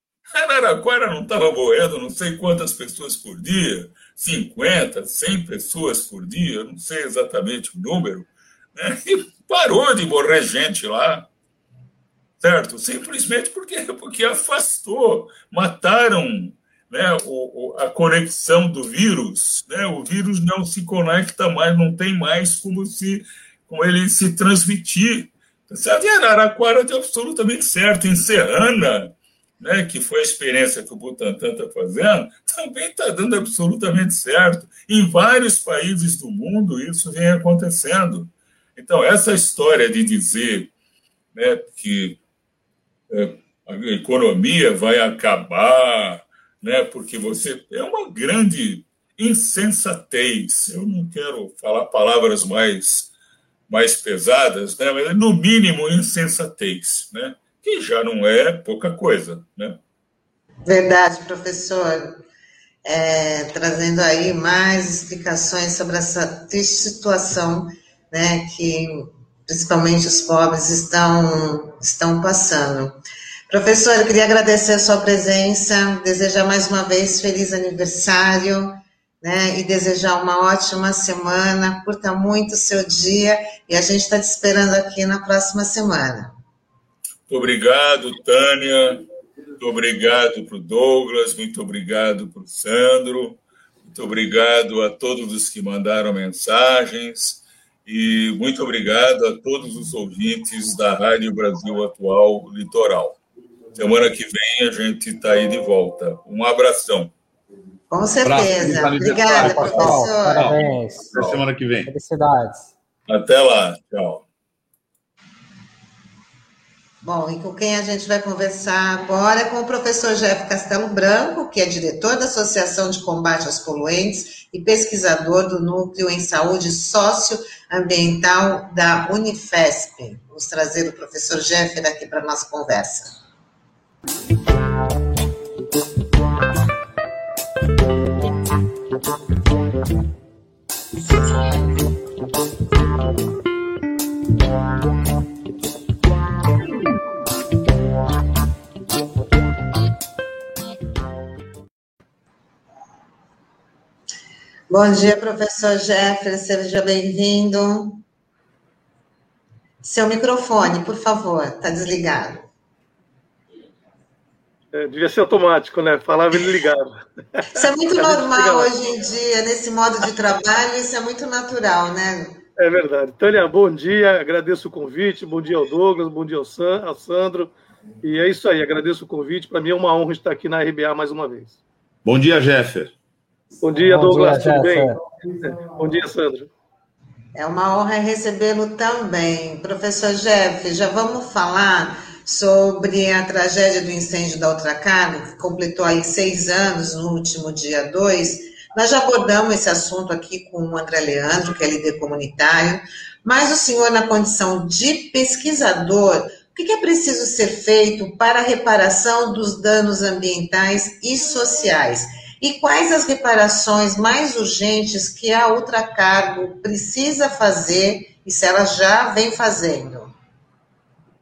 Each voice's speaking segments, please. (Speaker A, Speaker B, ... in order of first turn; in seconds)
Speaker A: 0.3-11.3, 12.4-40.7, 41.3-42.2, 43.1-53.1, 53.7-59.8, 87.3-89.0, 89.6-103.2, 103.8-107.1, 113.1-114.2
Speaker B: 60.6-62.1, 62.8-72.9, 73.5-86.3, 107.9-110.8, 117.0-133.1, 154.7-158.0, 159.8-162.4, 167.5-172.4, 187.3-220.1
Speaker C: 108.2-111.9, 182.0-182.9
Speaker D: 109.3-112.7, 183.7-185.0
Speaker E: 164.7-168.8, 172.6-181.6, 183.6-186.5